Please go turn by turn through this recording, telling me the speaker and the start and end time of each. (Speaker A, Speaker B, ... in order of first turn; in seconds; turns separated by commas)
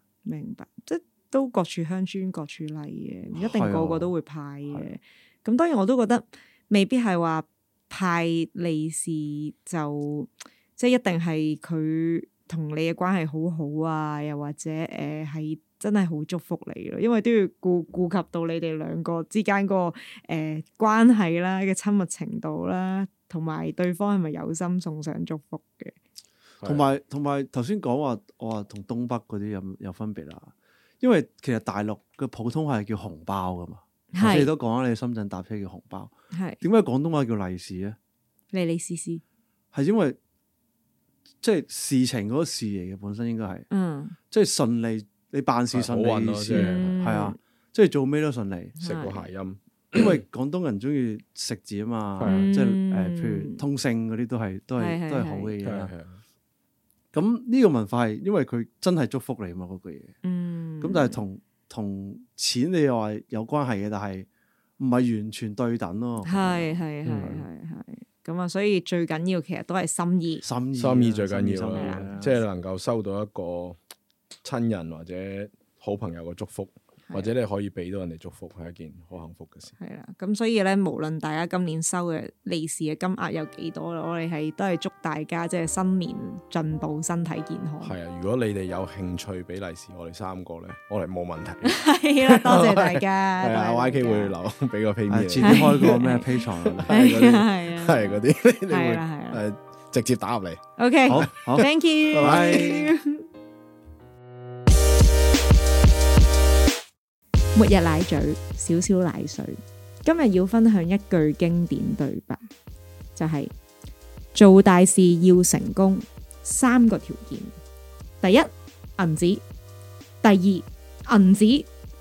Speaker A: 0.2-25.9, Speaker B: 3.3-4.1, Speaker B: 26.6-38.0, Speaker A: 34.1-34.5, Speaker A: 36.3-36.6, Speaker A: 38.5-39.2, Speaker B: 39.7-40.2, Speaker B: 41.4-43.6, Speaker A: 43.7-44.1, Speaker B: 44.3-48.7, Speaker C: 45.7-47.1, Speaker A: 46.5-47.4, Speaker A: 48.8-49.2, Speaker C: 48.8-50.2, Speaker B: 49.9-55.9, Speaker C: 52.2-52.5, Speaker A: 52.2-53.6, Speaker A: 54.8-55.5, Speaker C: 55.6-56.2, Speaker B: 57.1-60.1, Speaker A: 60.2-61.2, Speaker B: 60.8-64.3, Speaker B: 64.8-67.4, Speaker A: 66.2-70.4, Speaker C: 67.1-67.3, Speaker B: 70.4-72.4, Speaker C: 70.8-73.8, Speaker A: 71.8-72.0, Speaker C: 74.4-79.7, Speaker A: 79.8-88.0, Speaker C: 87.8-95.9, Speaker A: 91.6-94.3, Speaker B: 95.1-96.9, Speaker A: 95.4-96.3, Speaker C: 96.6-100.6, Speaker A: 96.8-99.4, Speaker A: 100.8-103.2, Speaker B: 101.1-102.9, Speaker C: 101.1-101.6, Speaker C: 102.2-102.8, Speaker A: 107.5-112.4, Speaker A: 113.2-113.5, Speaker A: 114.3-117.5, Speaker A: 118.2-119.4, Speaker A: 120.2-121.7